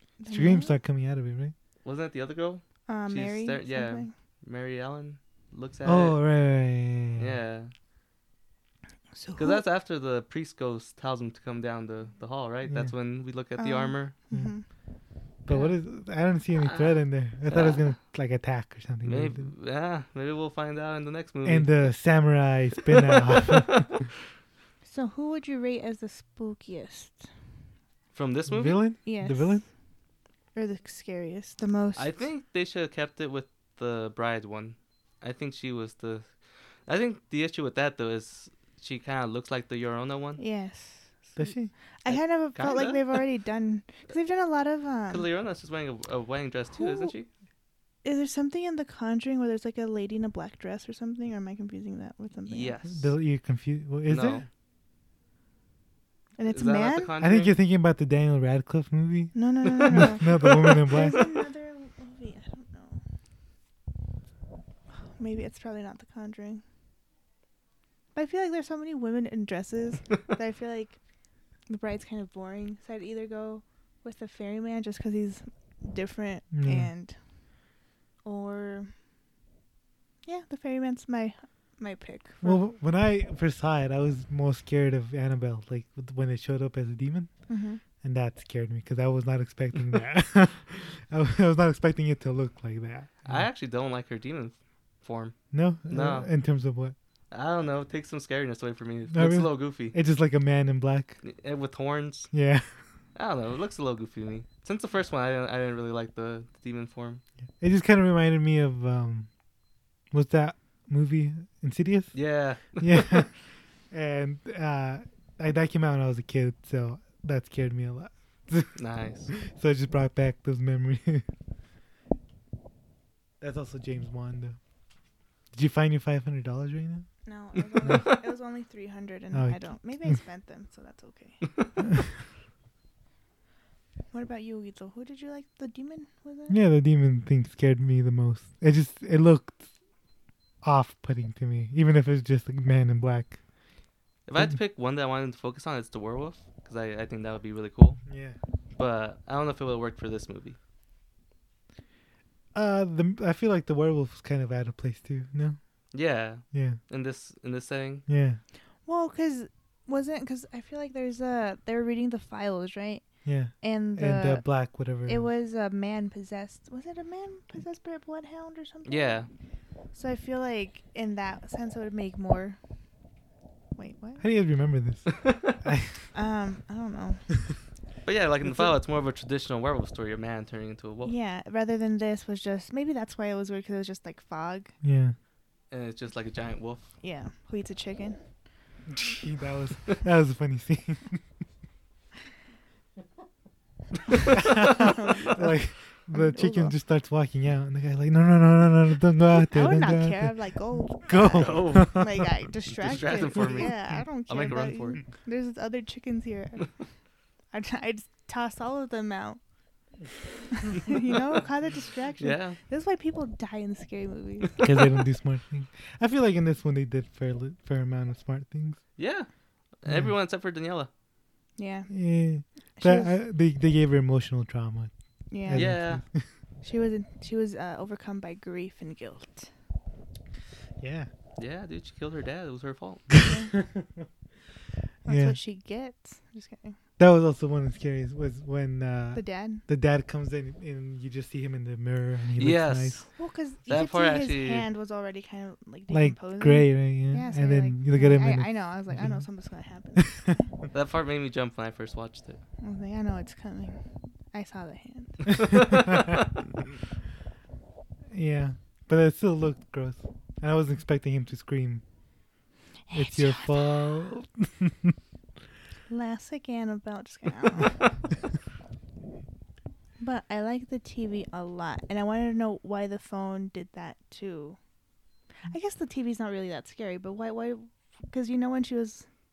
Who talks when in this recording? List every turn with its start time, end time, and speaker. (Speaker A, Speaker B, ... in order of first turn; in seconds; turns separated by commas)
Speaker A: 0.2-0.8, Speaker B: 0.3-1.5, Speaker C: 1.8-6.2, Speaker A: 2.9-4.1, Speaker B: 5.8-7.4, Speaker C: 7.2-7.7, Speaker A: 9.1-9.6, Speaker C: 9.4-14.2, Speaker B: 12.7-12.9, Speaker A: 13.6-14.7, Speaker B: 14.3-14.6, Speaker B: 15.4-19.5, Speaker C: 16.6-17.9, Speaker C: 19.1-21.9, Speaker B: 21.4-24.0, Speaker A: 24.9-27.3, Speaker C: 28.1-28.8, Speaker B: 28.5-29.7, Speaker A: 29.1-29.7, Speaker A: 30.6-32.2, Speaker C: 32.0-36.4, Speaker C: 36.9-40.4, Speaker A: 40.4-41.5, Speaker B: 41.4-41.7, Speaker A: 42.0-45.3, Speaker C: 42.1-43.2, Speaker C: 45.1-47.3, Speaker A: 46.7-47.1, Speaker A: 48.0-52.8, Speaker C: 52.5-53.1, Speaker B: 52.9-54.4, Speaker C: 54.1-54.5, Speaker A: 56.4-57.1, Speaker C: 56.5-57.5, Speaker B: 57.2-61.2, Speaker A: 59.3-63.0, Speaker C: 59.7-61.2, Speaker A: 65.1-66.6, Speaker A: 68.1-71.0, Speaker A: 71.7-77.2, Speaker B: 76.5-76.9, Speaker A: 78.2-78.9, Speaker A: 80.3-82.6, Speaker B: 82.4-87.3, Speaker A: 87.5-87.8, Speaker B: 88.0-93.5, Speaker C: 93.3-96.3, Speaker B: 95.5-97.0, Speaker C: 97.3-100.0, Speaker B: 99.1-101.2, Speaker C: 101.2-102.3, Speaker B: 102.3-102.8, Speaker C: 103.1-107.2, Speaker B: 107.6-109.3, Speaker B: 110.1-112.2, Speaker C: 112.1-113.2, Speaker B: 112.7-113.4, Speaker B: 113.9-121.2, Speaker C: 118.8-119.3, Speaker B: 123.4-124.6, Speaker B: 125.5-127.1, Speaker A: 127.2-131.8, Speaker B: 127.8-128.1, Speaker B: 129.3-130.2, Speaker A: 134.1-136.6, Speaker B: 136.5-139.6, Speaker B: 140.6-143.4, Speaker C: 144.3-148.1, Speaker B: 148.1-148.4, Speaker C: 148.8-150.6, Speaker B: 152.6-155.6, Speaker C: 155.9-158.1, Speaker B: 156.5-156.8, Speaker B: 158.1-158.4, Speaker A: 158.9-163.1, Speaker B: 163.2-165.3, Speaker A: 163.6-164.4, Speaker A: 165.1-169.3, Speaker C: 168.9-169.3, Speaker A: 169.9-172.6, Speaker A: 173.8-174.2, Speaker B: 174.2-176.0, Speaker C: 175.2-175.6, Speaker A: 176.1-177.3, Speaker C: 178.1-181.1, Speaker A: 181.1-184.7, Speaker B: 184.8-185.2, Speaker C: 185.7-186.9, Speaker A: 187.0-188.2, Speaker B: 188.9-191.2, Speaker C: 194.1-194.4, Speaker B: 194.3-202.2, Speaker A: 194.5-195.6, Speaker A: 196.1-196.7, Speaker A: 199.4-206.9, Speaker C: 201.3-202.1, Speaker C: 202.8-205.0, Speaker B: 203.3-204.0, Speaker A: 207.5-209.4, Speaker A: 210.5-214.8, Speaker C: 212.2-212.6, Speaker B: 214.6-218.8, Speaker C: 219.0-219.3, Speaker C: 219.8-220.9, Speaker B: 219.9-220.1, Speaker A: 221.6-222.0, Speaker B: 221.9-224.9, Speaker A: 222.8-223.2, Speaker A: 225.3-226.0, Speaker B: 225.4-226.3, Speaker C: 225.5-226.0, Speaker A: 226.6-229.5, Speaker B: 230.8-231.1, Speaker C: 231.4-233.1, Speaker B: 233.1-234.1, Speaker A: 233.2-233.5, Speaker A: 235.1-236.8, Speaker B: 235.1-235.4, Speaker B: 237.0-243.1, Speaker A: 239.2-239.6, Speaker C: 242.4-243.1, Speaker A: 243.2-250.5, Speaker C: 243.7-244.7, Speaker B: 245.9-249.2, Speaker B: 250.0-250.3, Speaker C: 250.7-252.4, Speaker A: 252.6-253.8, Speaker A: 254.3-255.8, Speaker B: 255.4-256.2, Speaker B: 258.1-261.8, Speaker A: 262.9-263.9, Speaker B: 262.9-264.9, Speaker A: 265.9-268.0, Speaker A: 270.0-274.6, Speaker A: 275.4-279.1